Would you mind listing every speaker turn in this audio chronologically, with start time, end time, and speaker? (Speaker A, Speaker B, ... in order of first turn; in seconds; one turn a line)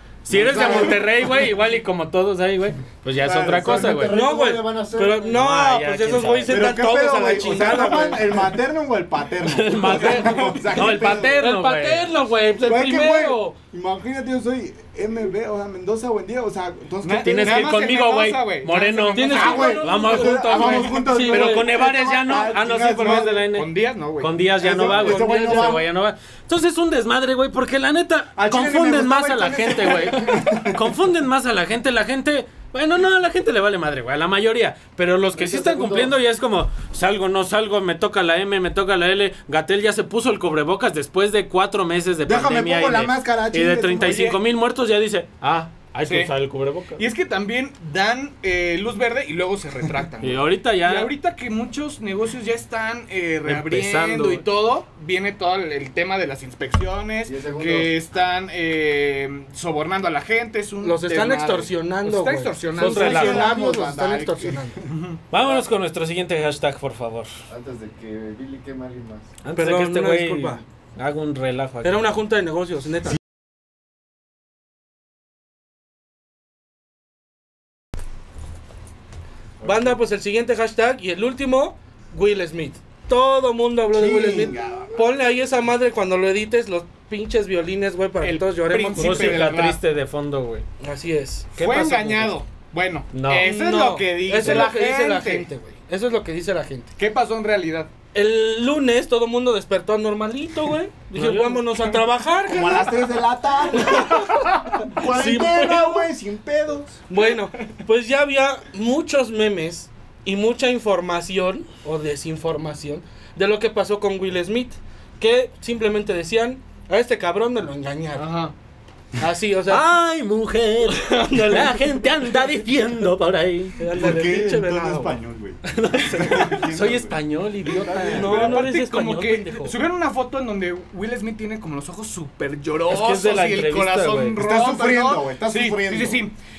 Speaker A: 0.2-4.1
Speaker B: 0.3-1.1
Speaker B: 3.2-4.0
Speaker C: 3.4-5.4
Speaker D: 4.1-8.4
Speaker A: 5.3-6.6
Speaker B: 6.5-11.4
Speaker A: 9.4-12.1
Speaker E: 9.9-10.6
Speaker D: 10.8-13.6
Speaker B: 12.6-17.7
Speaker E: 17.0-19.8
Speaker A: 17.2-47.0
Speaker D: 19.1-21.7
Speaker B: 19.3-23.4
Speaker E: 23.0-24.3
Speaker B: 24.6-25.8
Speaker D: 24.8-25.8
Speaker B: 28.4-30.8
Speaker B: 42.2-44.3
Speaker E: 44.0-44.4
Speaker E: 46.0-46.3
Speaker E: 47.0-63.5
Speaker A: 50.2-51.1
Speaker A: 53.4-54.4
Speaker C: 57.2-58.0
Speaker D: 60.8-64.8
Speaker A: 62.8-63.5
Speaker B: 62.8-64.7
Speaker E: 64.8-65.2
Speaker A: 65.3-67.3
Speaker C: 67.5-69.3
Speaker A: 69.4-72.0
Speaker D: 69.5-70.6
Speaker D: 71.8-73.2
Speaker D: 79.6-89.5
Speaker B: 83.9-85.0
Speaker E: 88.2-89.8
Speaker A: 88.9-90.6
Speaker D: 90.8-91.6
Speaker A: 91.5-92.3
Speaker E: 91.6-95.5
Speaker A: 93.1-93.5
Speaker D: 93.4-96.9
Speaker A: 94.4-94.7
Speaker E: 97.0-97.9
Speaker D: 98.1-103.0
Speaker A: 101.1-101.6
Speaker B: 102.5-107.0
Speaker D: 103.7-104.4
Speaker D: 104.9-106.1
Speaker D: 107.1-118.3
Speaker E: 118.1-118.5
Speaker D: 119.2-119.8
Speaker A: 119.7-123.8
Speaker D: 120.9-122.0
Speaker D: 123.8-125.2
Speaker B: 123.9-128.7
Speaker A: 125.6-128.6
Speaker D: 128.0-129.8
Speaker E: 128.1-136.3
Speaker A: 132.9-134.4
Speaker B: 134.4-136.3